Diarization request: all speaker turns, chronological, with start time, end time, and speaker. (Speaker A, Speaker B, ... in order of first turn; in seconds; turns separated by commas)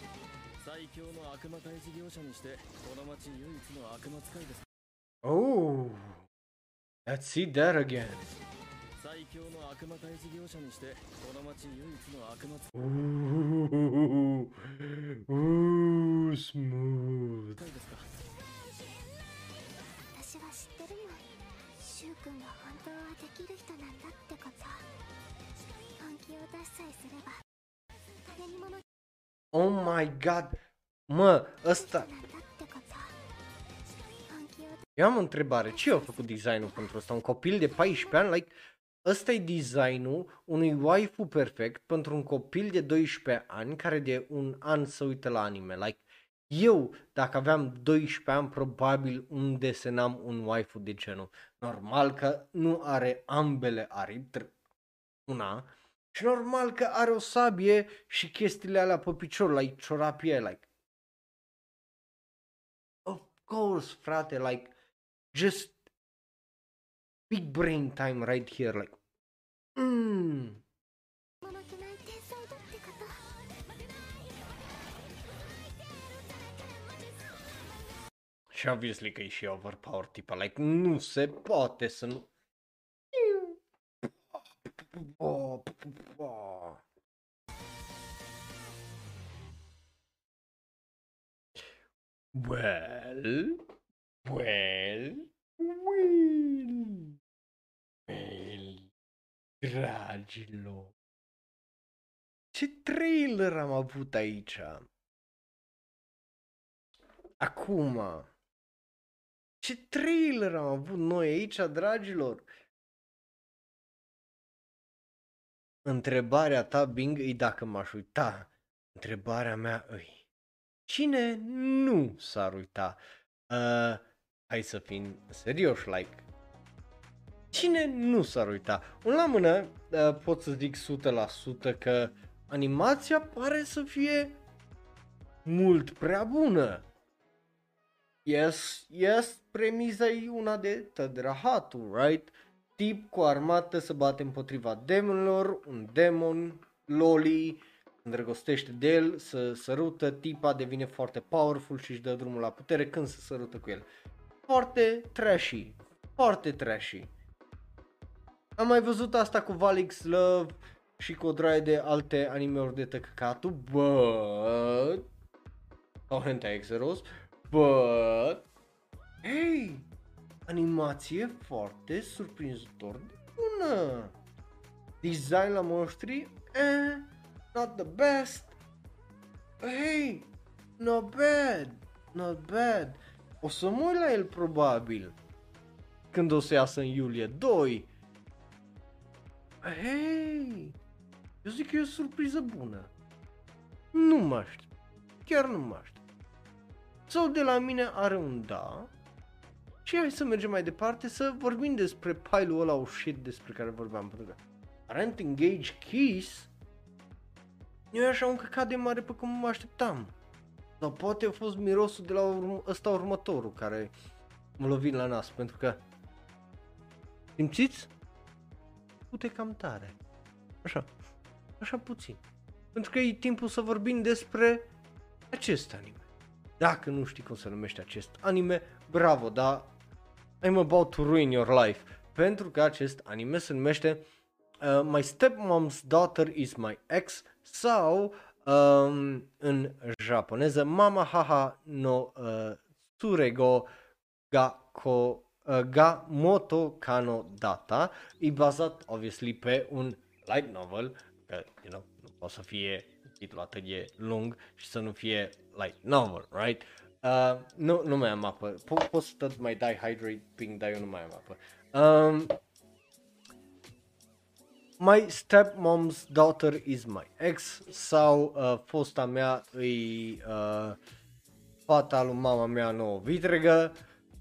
Speaker A: 0.6-4.6, Speaker B: 5.2-6.2, Speaker B: 7.0-8.2, Speaker A: 9.0-12.7, Speaker B: 12.7-17.6, Speaker A: 17.6-18.1, Speaker C: 20.1-21.3, Speaker C: 21.8-24.9, Speaker C: 26.0-27.4, Speaker C: 28.3-28.8, Speaker B: 29.5-32.1, Speaker C: 31.7-33.1, Speaker C: 34.3-34.8, Speaker B: 35.0-54.5, Speaker B: 55.3-60.6, Speaker B: 63.0-64.7, Speaker B: 65.3-65.8, Speaker B: 67.3-69.0, Speaker B: 69.8-70.6, Speaker C: 71.4-73.2, Speaker B: 78.5-82.3, Speaker B: 83.1-84.0, Speaker B: 84.9-86.8, Speaker B: 92.3-93.6, Speaker B: 94.2-97.1, Speaker B: 98.1-98.9, Speaker B: 99.6-100.9, Speaker B: 102.5-104.9, Speaker B: 107.4-108.3, Speaker B: 109.6-112.4, Speaker B: 115.8-120.2, Speaker B: 120.9-123.0, Speaker B: 123.5-126.2, Speaker B: 127.5-134.4, Speaker B: 135.4-136.8, Speaker B: 138.2-153.8, Speaker B: 154.5-157.1, Speaker B: 158.6-165.1, Speaker B: 166.1-168.4, Speaker B: 169.2-169.8, Speaker B: 170.5-174.1, Speaker B: 175.0-178.5, Speaker B: 179.6-180.3, Speaker B: 180.8-185.1, Speaker B: 186.1-187.9, Speaker B: 189.6-190.8, Speaker B: 191.4-192.9, Speaker B: 193.9-194.7, Speaker B: 195.2-196.0, Speaker B: 197.1-198.9, Speaker B: 199.8-206.5, Speaker B: 207.9-210.1, Speaker B: 210.8-213.9, Speaker B: 214.6-215.8, Speaker B: 217.4-217.9, Speaker B: 219.1-219.9, Speaker B: 221.6-222.2, Speaker B: 222.7-224.7, Speaker B: 225.3-226.0, Speaker B: 226.6-229.7, Speaker B: 230.4-234.0, Speaker B: 234.6-243.7, Speaker B: 244.3-262.4, Speaker B: 264.8-270.8, Speaker B: 271.7-273.8